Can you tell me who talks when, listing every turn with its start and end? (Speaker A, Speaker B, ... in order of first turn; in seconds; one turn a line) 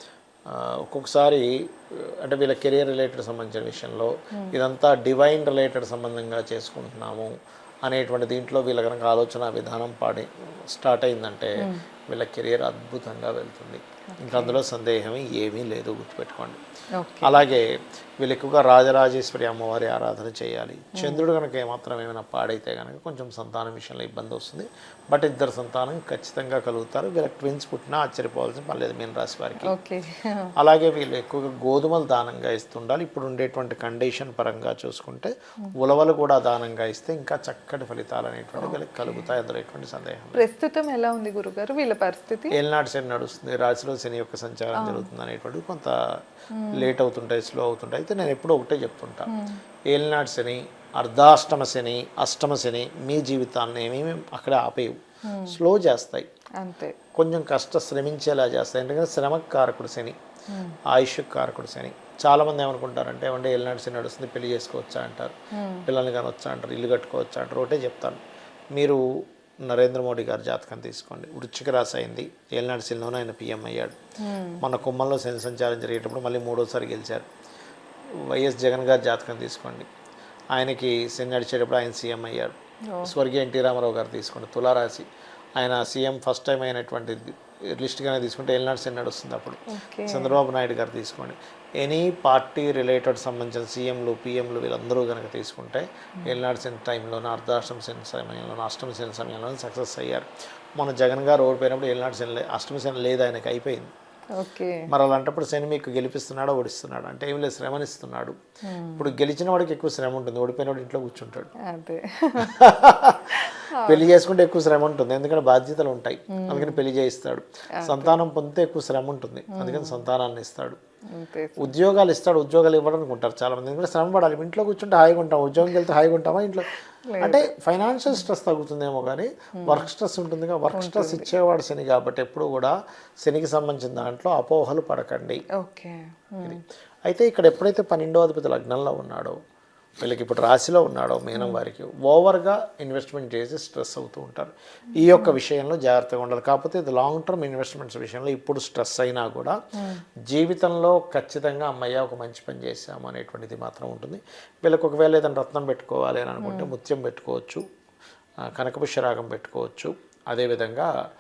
Speaker A: 0.5-7.3
Speaker A: 7.8-16.6
Speaker B: 14.1-14.6
Speaker B: 17.0-17.4
Speaker A: 17.2-17.7
Speaker A: 18.2-29.7
Speaker B: 21.0-21.2
Speaker B: 29.6-30.5
Speaker A: 30.6-40.5
Speaker B: 38.6-39.2
Speaker B: 40.4-42.5
Speaker A: 42.5-45.9
Speaker B: 44.8-45.1
Speaker B: 46.5-46.9
Speaker A: 46.8-49.3
Speaker B: 49.3-49.6
Speaker A: 49.9-56.2
Speaker B: 55.3-55.6
Speaker B: 56.6-57.0
Speaker A: 57.2-60.1
Speaker B: 60.5-60.8
Speaker A: 60.9-65.3
Speaker B: 65.5-65.9
Speaker A: 65.9-68.2
Speaker A: 68.8-69.0
Speaker A: 69.7-74.0
Speaker B: 74.2-74.6
Speaker A: 74.6-77.2
Speaker A: 78.2-79.9
Speaker A: 80.5-103.9
Speaker B: 89.7-90.4
Speaker B: 104.3-104.8
Speaker A: 104.9-108.4
Speaker B: 108.7-109.1
Speaker A: 109.0-111.5
Speaker B: 111.7-112.5
Speaker A: 112.4-120.8
Speaker B: 113.3-114.1
Speaker B: 116.3-116.8
Speaker B: 117.8-118.2
Speaker B: 119.5-120.0
Speaker B: 121.1-121.7
Speaker A: 121.6-135.4
Speaker B: 127.1-127.4
Speaker B: 129.6-129.9
Speaker B: 130.8-131.3
Speaker B: 135.6-136.6
Speaker A: 136.4-139.4
Speaker A: 140.0-149.6
Speaker B: 145.1-145.4
Speaker A: 150.3-157.6
Speaker B: 156.4-156.7
Speaker A: 158.5-160.9